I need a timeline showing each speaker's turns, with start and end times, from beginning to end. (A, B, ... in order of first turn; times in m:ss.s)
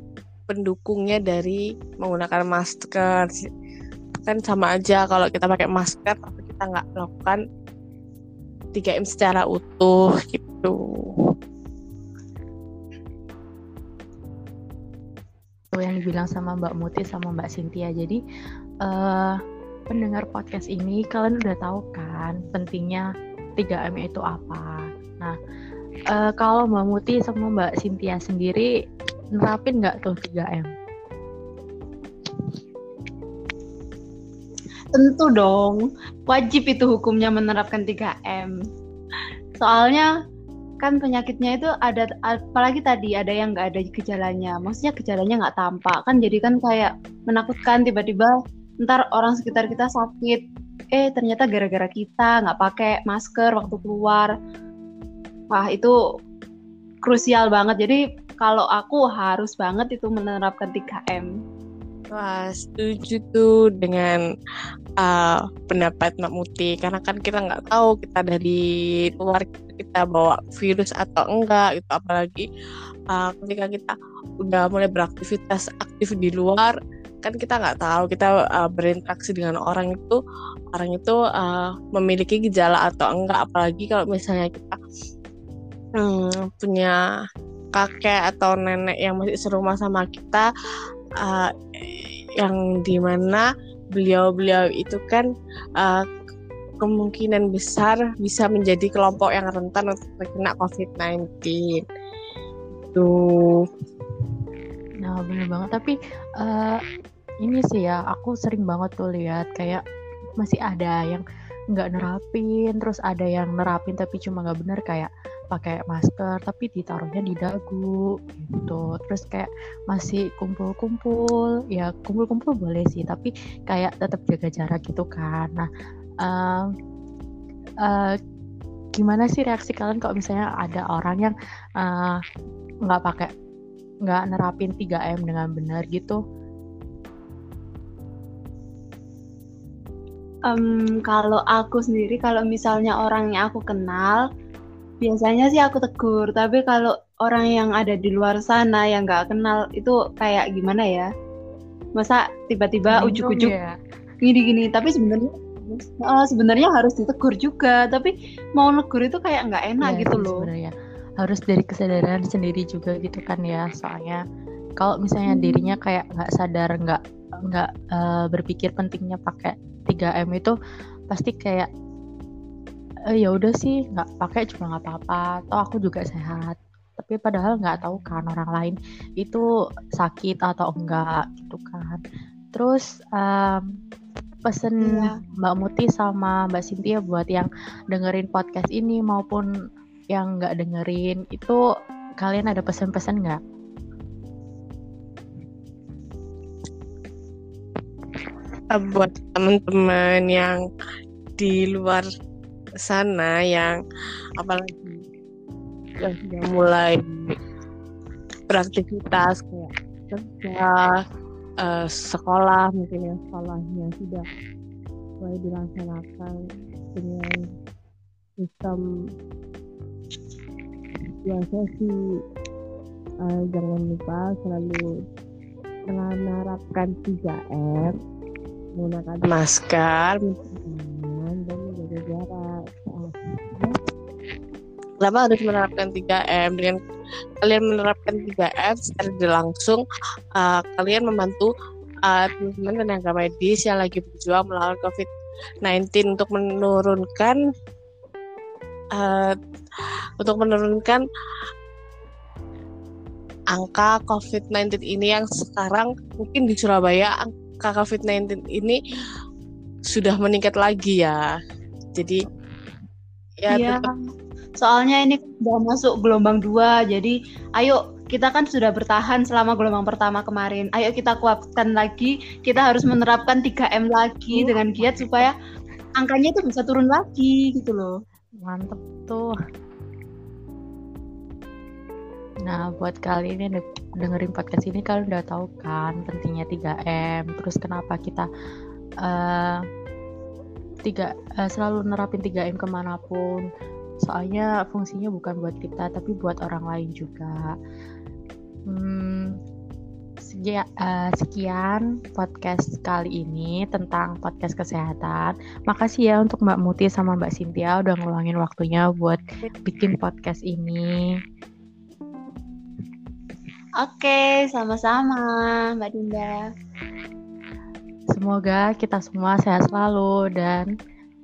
0:00.5-0:03.4 A
0:04.2-0:07.4 A
0:08.7-0:10.8 A
0:15.7-0:18.2 B
0:18.8-0:19.4 B
0:19.9-0:23.0 B
0:23.6-0:24.7 B
0:26.1-0:28.7 B
0:29.4-0:30.7 B
0:34.9-0:38.6 C
0:39.6-0:40.1 C
0:40.8-0:50.4 C
0:50.9-0:54.3 C
0:55.5-0:55.9 C
0:57.0-1:01.3 C
1:02.1-1:04.2 A
1:05.0-1:08.6 A
1:09.1-1:12.5 A
1:13.1-1:20.2 A
1:20.7-1:24.8 A
1:26.0-1:27.0 A
1:27.8-1:30.5 A
1:31.2-1:35.3 A
1:36.8-1:41.8 A
1:42.8-1:43.6 A
1:45.0-1:46.8 B
1:47.4-1:49.8 B
1:50.4-2:05.7 B
2:06.2-2:06.7 B
2:07.9-2:08.2 B
2:09.0-2:12.2 B
2:12.9-2:13.3 B
2:14.1-2:16.2 B
2:20.5-2:24.2 C
2:25.0-2:31.1 C
2:32.0-2:33.5 C
2:32.9-2:33.8 B
2:34.2-2:40.5 C
2:39.8-2:44.2 B
2:44.8-2:47.0 B
2:45.3-2:45.8 C
2:47.5-2:50.5 B
2:51.1-2:51.7 B
2:53.2-2:59.4 B
3:00.0-3:02.0 B
3:02.5-3:03.6 B
3:04.5-3:09.5 B
3:04.8-3:05.1 C
3:10.1-3:11.6 B
3:12.2-3:13.4 B
3:18.7-3:20.6 A
3:21.4-3:22.1 A
3:22.8-3:23.8 A
3:24.4-3:25.0 A
3:26.0-3:27.4 A
3:28.5-3:31.0 A
3:31.6-3:34.2 A
3:35.2-3:36.4 A
3:36.9-3:37.4 A
3:38.4-3:38.8 A
3:41.2-3:42.0 A
3:43.2-3:44.9 A
3:45.9-3:48.0 A
3:48.8-3:53.8 A
3:55.0-3:56.8 A
3:57.4-3:59.8 A
4:00.4-4:01.5 A
4:02.1-4:05.1 A
4:05.6-4:07.4 A
4:09.0-4:09.4 A
4:10.2-4:11.0 A
4:13.5-4:18.8 A
4:19.9-4:21.2 A
4:23.4-4:23.8 A
4:23.5-4:24.0 C
4:24.6-4:35.3 C
4:34.3-4:35.3 B
4:36.0-4:37.9 C
4:38.4-4:39.3 B
4:42.5-4:48.3 B
4:49.0-4:49.6 B
4:50.9-4:53.4 B
4:54.1-4:57.5 B
4:58.7-4:59.4 B
5:00.2-5:10.9 B
5:13.8-5:16.4 C
5:18.1-5:20.7 B